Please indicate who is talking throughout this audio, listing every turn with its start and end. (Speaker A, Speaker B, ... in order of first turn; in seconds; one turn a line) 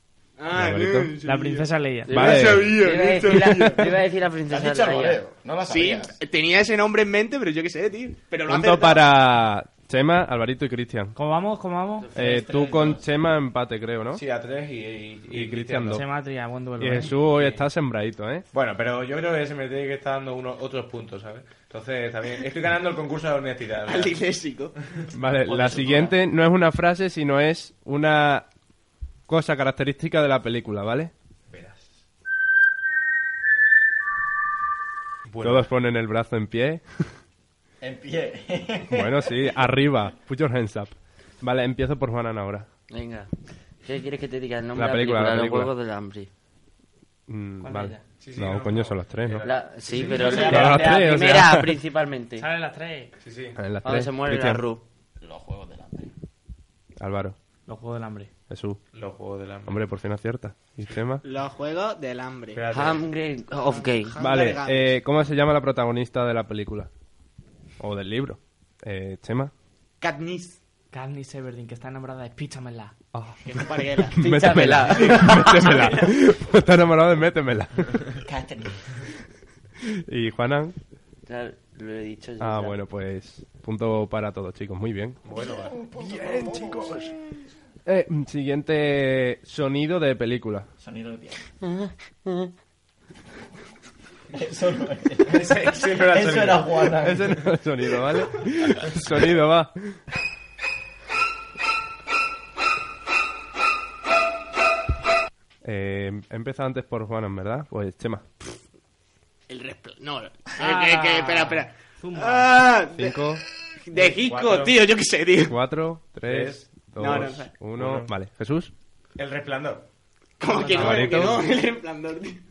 Speaker A: 0.4-4.0
Speaker B: 0.5-1.1
Speaker C: 1.2-2.2
Speaker D: 2.1-5.2
Speaker B: 2.1-3.7
Speaker E: 4.5-6.2
Speaker A: 5.7-9.2
Speaker B: 8.5-11.2
Speaker C: 11.2-12.1
Speaker B: 12.1-14.2
Speaker E: 12.2-13.0
Speaker D: 12.2-12.6
Speaker F: 14.2-16.0
Speaker B: 15.3-16.1
Speaker C: 15.9-17.1
Speaker B: 16.8-18.4
Speaker F: 17.3-17.6
Speaker F: 18.5-24.2
Speaker A: 23.9-24.7
Speaker B: 25.1-28.5
Speaker E: 25.5-26.1
Speaker B: 29.3-31.1
Speaker F: 31.5-32.0
Speaker F: 35.3-35.7
Speaker B: 35.4-36.8
Speaker E: 37.8-39.6
Speaker B: 38.9-42.7
Speaker D: 42.9-43.3
Speaker D: 43.8-46.3
Speaker B: 44.8-45.7
Speaker B: 47.3-49.5
Speaker C: 47.6-48.0
Speaker F: 48.2-50.7
Speaker D: 49.5-52.5
Speaker E: 50.1-51.1
Speaker B: 50.2-51.8
Speaker C: 52.4-53.1
Speaker F: 53.2-53.6
Speaker B: 53.5-54.6
Speaker D: 53.8-54.8
Speaker E: 55.2-56.1
Speaker B: 57.0-57.4
Speaker C: 57.7-58.3
Speaker B: 58.5-58.8
Speaker F: 58.9-59.8
Speaker B: 59.7-61.2
Speaker A: 61.2-62.6
Speaker F: 62.5-63.0
Speaker D: 62.7-64.2
Speaker A: 63.6-65.0
Speaker B: 64.2-66.9
Speaker B: 67.8-69.5
Speaker A: 70.0-70.6
Speaker C: 70.9-72.9
Speaker B: 73.1-78.2
Speaker A: 73.4-74.3
Speaker D: 74.2-75.9
Speaker A: 74.8-76.1
Speaker E: 78.2-78.8
Speaker B: 80.1-80.8
Speaker D: 81.3-82.8
Speaker B: 82.4-85.2
Speaker F: 85.2-85.8
Speaker E: 85.3-87.1
Speaker B: 86.0-87.1
Speaker B: 87.9-90.7
Speaker E: 90.8-91.4
Speaker D: 91.6-92.5
Speaker E: 94.3-97.4
Speaker F: 95.3-96.9
Speaker B: 97.0-99.9
Speaker B: 105.6-108.5
Speaker A: 109.5-115.6
Speaker C: 110.6-112.5
Speaker B: 112.9-113.4
Speaker F: 114.0-114.9
Speaker B: 115.5-118.7
Speaker F: 116.2-116.7
Speaker A: 117.0-117.5
Speaker F: 117.8-118.1
Speaker F: 119.2-119.8
Speaker A: 120.4-122.4
Speaker C: 120.5-121.0
Speaker B: 120.7-121.4
Speaker F: 120.8-121.4